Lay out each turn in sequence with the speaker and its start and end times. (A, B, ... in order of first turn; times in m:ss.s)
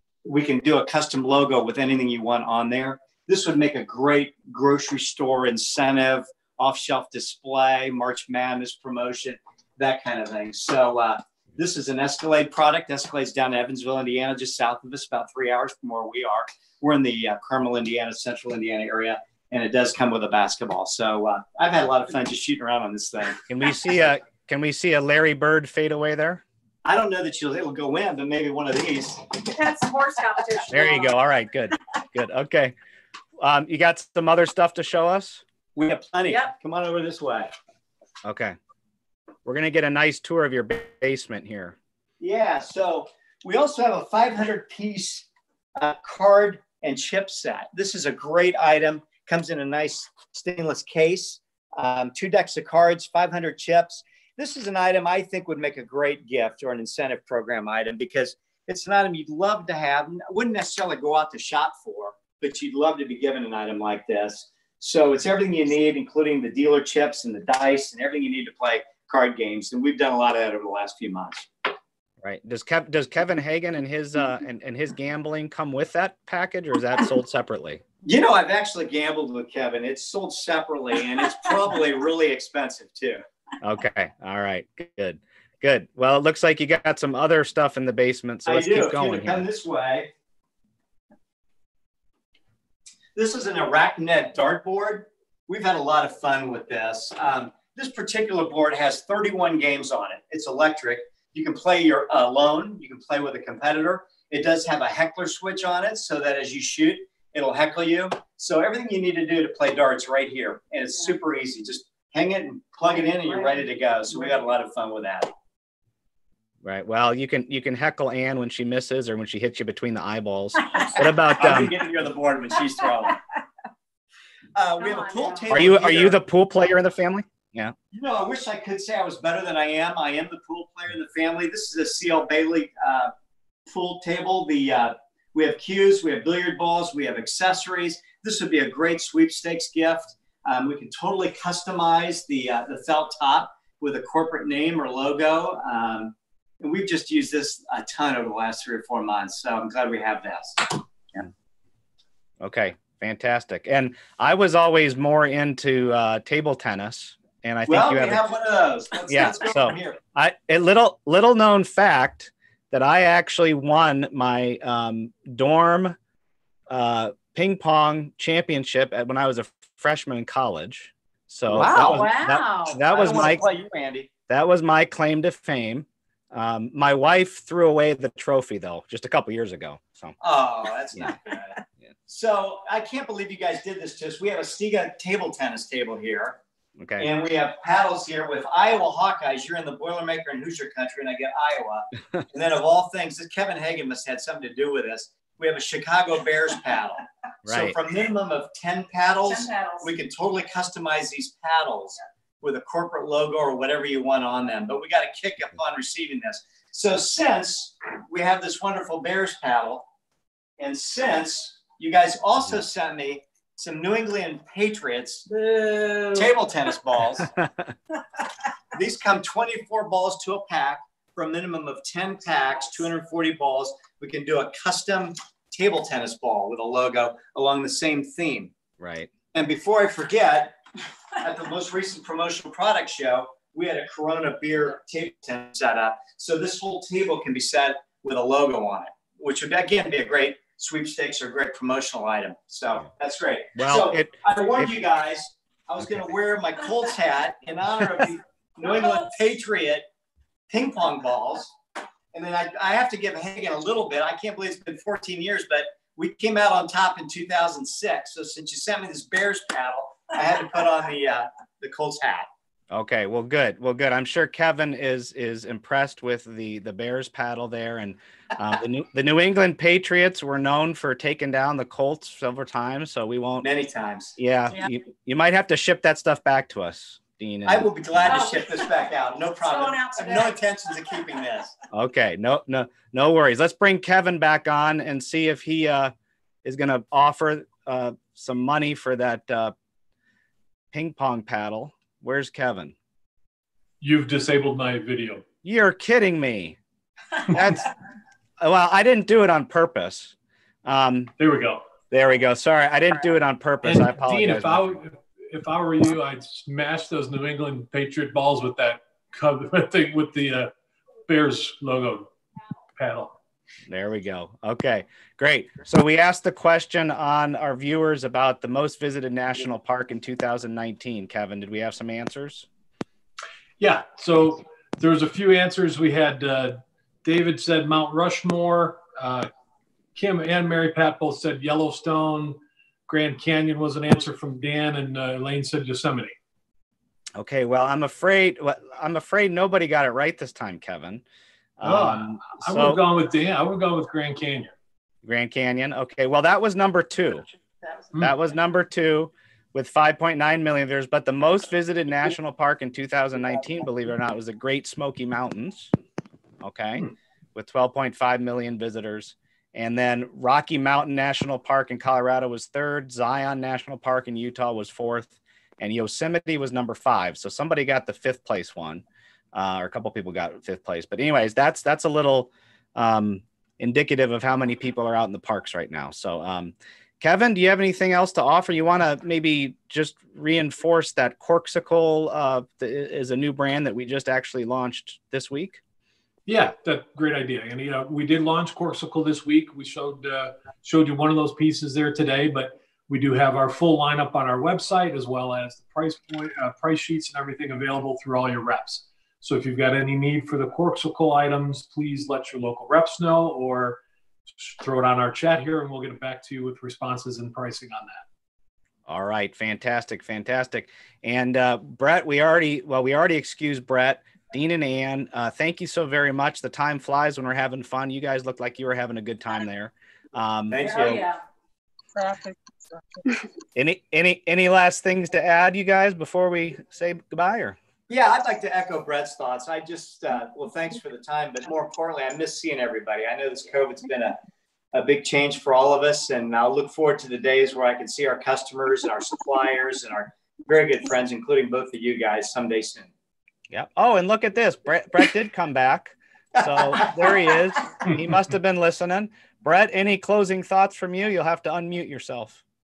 0:00.2-0:23.4 A
0:23.5-0:26.4 B
0:26.8-0:29.3 A
0:29.5-0:31.1 C
0:30.7-0:32.7 B
0:33.4-0:35.4 B
0:35.8-0:37.5 A
0:38.2-0:38.6 B
0:39.5-0:41.8 B
0:42.2-1:11.5 A
1:12.2-1:17.8 B
1:18.0-1:23.2 A
1:23.6-1:29.5 B
1:28.5-1:30.1 A
1:33.2-1:55.3 A
1:56.6-2:01.8 B
2:01.4-2:03.2 A
2:04.6-2:06.2 A
2:04.8-2:05.4 C
2:05.5-2:07.8 B
2:07.9-2:13.1 A
2:13.7-2:30.8 A
2:32.4-2:38.2 B
2:37.7-2:40.0 A
2:39.1-2:46.0 B
2:46.7-2:53.4 B
2:51.5-2:52.1 A
2:51.6-2:52.8 C
2:52.8-2:54.1 A
2:54.3-3:00.2 B
3:00.2-3:06.4 A
3:06.8-3:07.1 B
3:07.0-3:29.9 A
3:17.4-3:17.8 B
3:19.3-3:19.9 C
3:30.6-3:35.3 A
3:35.5-3:36.1 C
3:36.1-3:37.3 A
3:37.3-3:37.7 B
3:38.7-3:48.5 A
3:48.8-3:49.1 B
3:49.3-3:50.6 A
3:51.2-4:09.9 A
4:03.6-4:04.7 B
4:10.5-4:11.5 A
4:12.1-4:22.3 A
4:22.7-4:33.5 B
4:33.4-4:34.2 A
4:34.2-4:38.2 B
4:37.5-4:41.5 A
4:38.1-4:38.7 C
4:39.4-4:40.4 C
4:41.7-4:45.9 B
4:46.4-4:49.5 B
4:50.7-4:52.8 B
4:53.8-4:55.2 D
4:55.4-4:56.6 B
4:57.2-4:57.7 B
4:58.4-5:00.1 B
5:00.6-5:01.1 B
5:01.2-5:01.6 D
5:01.9-5:04.8 B
5:03.6-5:10.5 D
5:11.1-5:12.1 D
5:12.8-5:13.1 D
5:13.7-5:22.5 B
5:23.6-5:29.3 D
5:30.0-5:36.1 D
5:37.2-5:41.0 B
5:41.6-5:42.8 B
5:41.6-5:44.5 D
5:45.0-5:47.3 B
5:48.0-5:55.7 B
5:56.4-6:25.6 B
6:26.3-6:43.8 D
6:44.3-6:48.0 D
6:48.9-7:00.7 B
7:00.5-7:01.1 A
7:00.6-7:01.2 C
7:01.9-7:02.4 C
7:03.6-7:07.6 B
7:07.9-7:14.2 A
7:14.7-7:22.9 A
7:23.5-7:32.4 B
7:26.6-7:27.0 A